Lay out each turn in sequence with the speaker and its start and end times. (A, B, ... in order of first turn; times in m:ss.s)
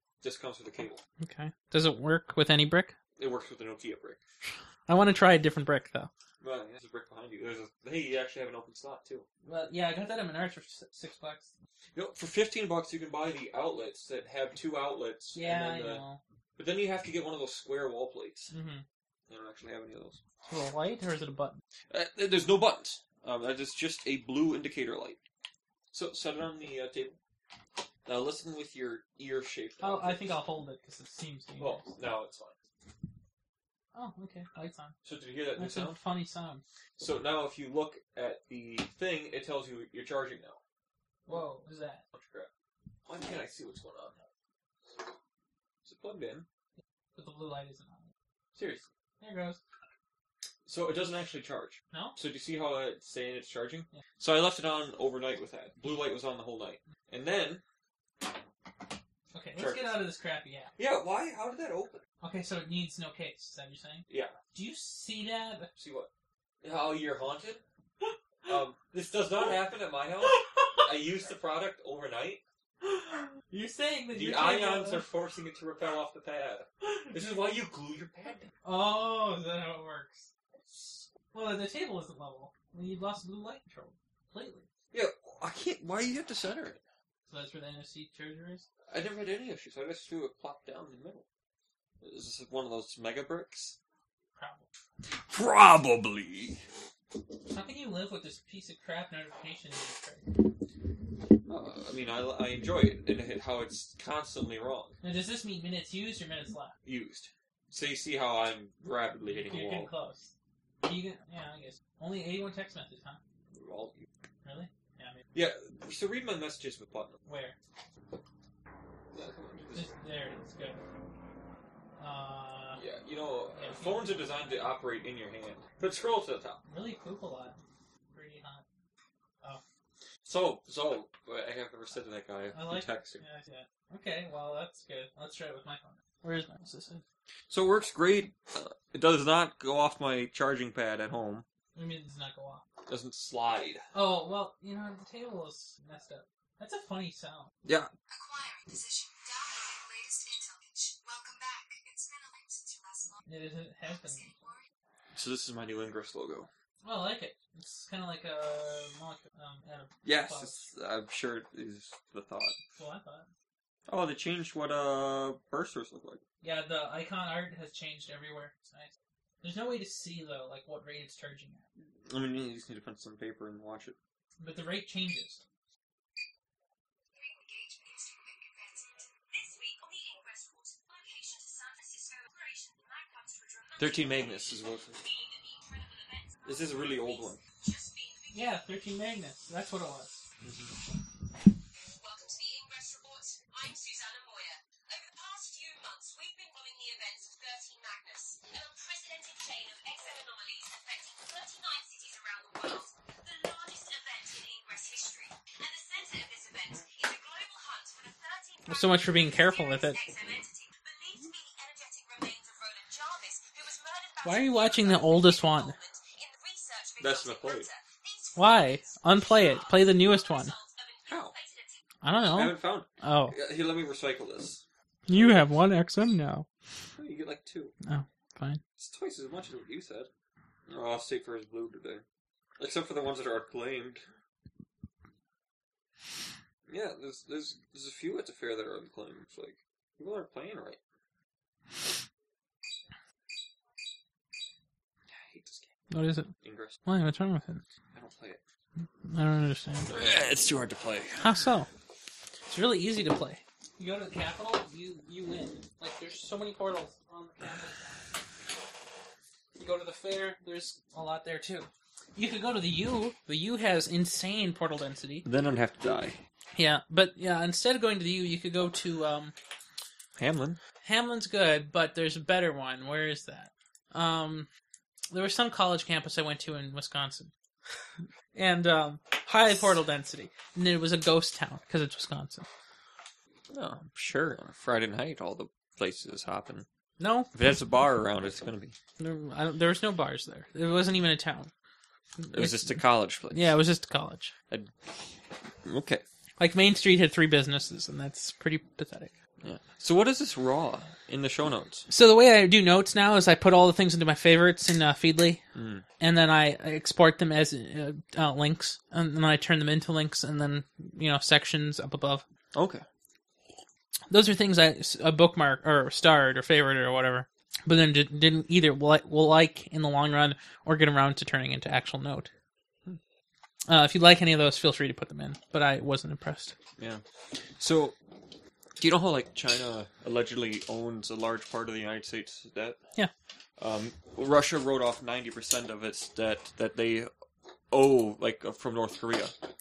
0:00.2-0:01.0 A
0:01.2-0:02.9 B
0:03.2-0:04.2 A
0:04.9-0:06.1 B
0:06.4-0:09.3 A
0:09.4-0:11.5 B
0:12.0-0:16.0 A
0:15.3-0:16.2 B
0:16.6-0:18.5 A
0:18.5-0:18.8 B
0:19.3-0:20.2 A
0:20.5-0:21.6 B
0:21.9-0:25.2 A
0:25.9-0:27.2 A
0:28.1-0:30.4 A
0:29.8-0:32.0 B
0:31.6-0:32.6 A
0:33.9-0:35.0 B
0:35.0-0:36.0 A
0:35.6-0:36.6 B
0:37.0-0:40.6 A
0:41.3-0:42.0 B
0:42.1-0:42.5 A
0:43.1-0:44.2 A
0:45.8-0:46.5 A
0:47.2-0:48.1 B
0:48.6-0:48.9 A
0:49.2-0:49.6 B
0:50.7-0:57.6 A
0:51.9-0:52.2 B
0:59.3-1:00.7 B
0:59.6-1:00.1 A
1:00.8-1:02.0 A
1:02.2-1:05.7 B
1:04.1-1:04.4 A
1:05.8-1:06.1 A
1:06.6-1:07.6 A
1:08.5-1:12.4 A
1:10.3-1:10.8 B
1:12.8-1:15.1 B
1:14.1-1:18.5 A
1:16.8-1:17.1 B
1:18.6-1:20.3 B
1:20.5-1:21.1 A
1:21.3-1:24.7 B
1:24.9-1:26.8 A
1:27.3-1:28.7 B
1:28.9-1:31.2 A
1:32.0-1:33.8 A
1:34.4-1:34.7 B
1:35.1-1:36.6 A
1:37.5-1:40.4 B
1:41.5-1:45.0 A
1:45.0-1:46.8 B
1:46.8-1:49.9 A
1:49.3-1:50.3 B
1:50.8-1:53.2 B
1:53.5-1:54.1 A
1:54.4-1:55.2 B
1:55.3-1:57.2 A
1:57.3-1:57.6 B
1:59.1-1:59.9 A
1:59.7-2:00.8 B
2:02.0-2:02.8 B
2:02.8-2:06.6 A
2:03.6-2:04.3 B
2:06.7-2:07.6 B
2:08.1-2:08.6 B
2:10.2-2:13.2 A
2:12.5-2:17.0 B
2:17.5-2:21.5 A
2:21.8-2:22.6 B
2:22.9-2:23.8 A
2:23.9-2:27.5 B
2:27.6-2:27.9 A
2:28.1-2:33.2 C
2:33.3-2:34.3 B
2:33.9-2:34.7 C
2:35.2-2:36.5 A
2:36.8-2:40.6 B
2:40.0-2:42.6 A
2:42.8-2:43.3 B
2:43.9-2:46.2 A
2:46.4-2:48.9 B
2:49.4-2:51.6 B
2:52.1-2:54.0 A
2:54.4-2:55.4 B
2:57.1-3:08.6 C
3:03.8-3:05.0 A
3:06.4-3:07.4 A
3:08.3-3:10.2 B
3:10.4-3:10.7 A
3:11.9-3:41.8 C
3:28.7-3:30.0 B
3:34.2-3:35.8 B
3:37.0-3:37.7 A
3:38.4-3:40.5 B
3:41.1-3:41.3 A
3:42.0-3:43.4 B
3:42.3-3:45.6 A
3:45.1-3:46.5 B
3:47.0-3:47.7 A
3:47.8-3:48.6 B
3:48.8-3:50.1 A
3:50.7-3:52.0 A
3:52.6-3:54.0 A
3:56.7-4:00.8 A
4:05.1-4:05.7 A
4:05.9-4:06.3 B
4:06.4-4:06.8 A
4:06.8-4:07.6 B
4:07.9-4:08.4 A
4:09.1-4:09.9 B
4:09.9-4:11.3 A
4:11.2-4:11.7 B
4:12.5-4:18.1 B
4:19.6-4:25.3 B
4:25.2-4:26.2 A
4:26.6-4:29.3 B
4:30.2-4:30.6 A
4:30.8-4:34.5 B
4:35.1-4:37.3 B
4:38.4-4:42.5 B
4:43.5-4:46.7 A
4:47.0-4:47.3 B
4:47.3-4:48.8 A
4:49.0-4:51.5 B
4:52.2-4:54.3 B
4:52.3-4:53.6 A
4:55.6-4:56.0 A
4:56.4-4:59.1 B
4:59.4-5:01.9 A
5:01.9-5:05.4 B
5:05.6-5:05.8 A
5:06.0-5:12.2 B
5:12.5-5:12.8 A
5:14.1-5:22.3 B
5:23.7-5:26.6 B
5:27.6-5:28.0 A
5:28.8-5:32.8 A
5:33.6-5:37.1 A
5:37.7-5:39.3 A